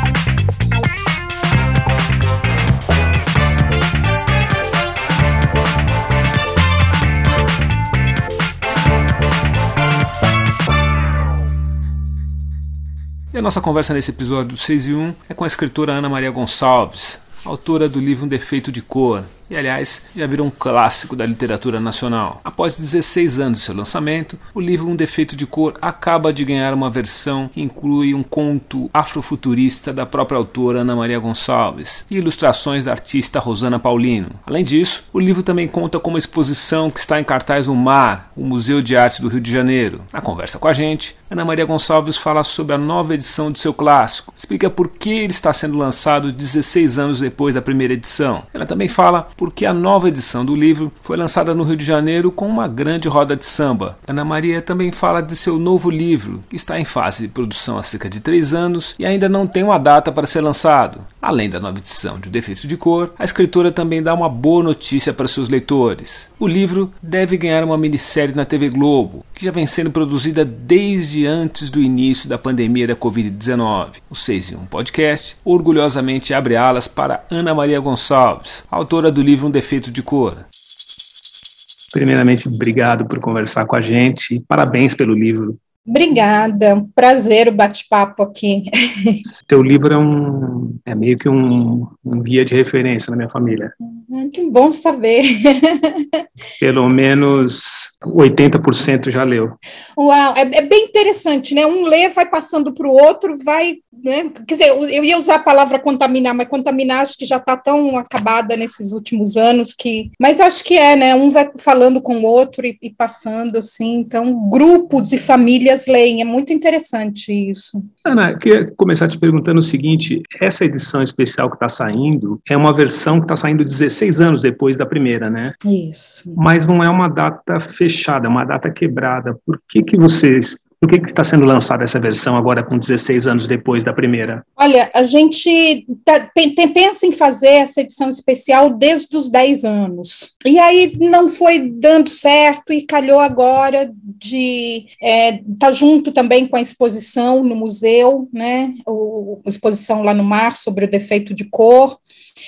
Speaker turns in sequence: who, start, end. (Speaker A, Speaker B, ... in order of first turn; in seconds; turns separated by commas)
Speaker A: 13.3-80.5, Speaker B: 82.0-82.5, Speaker A: 82.0-85.5, Speaker C: 85.9-89.2, Speaker B: 89.5-92.2, Speaker A: 90.6-91.2, Speaker A: 91.8-93.7, Speaker C: 93.8-96.2, Speaker B: 96.6-99.5, Speaker A: 99.1-99.4, Speaker C: 100.0-117.8, Speaker B: 118.1-125.5, Speaker C: 125.6-126.4, Speaker B: 126.4-134.4, Speaker C: 134.6-152.0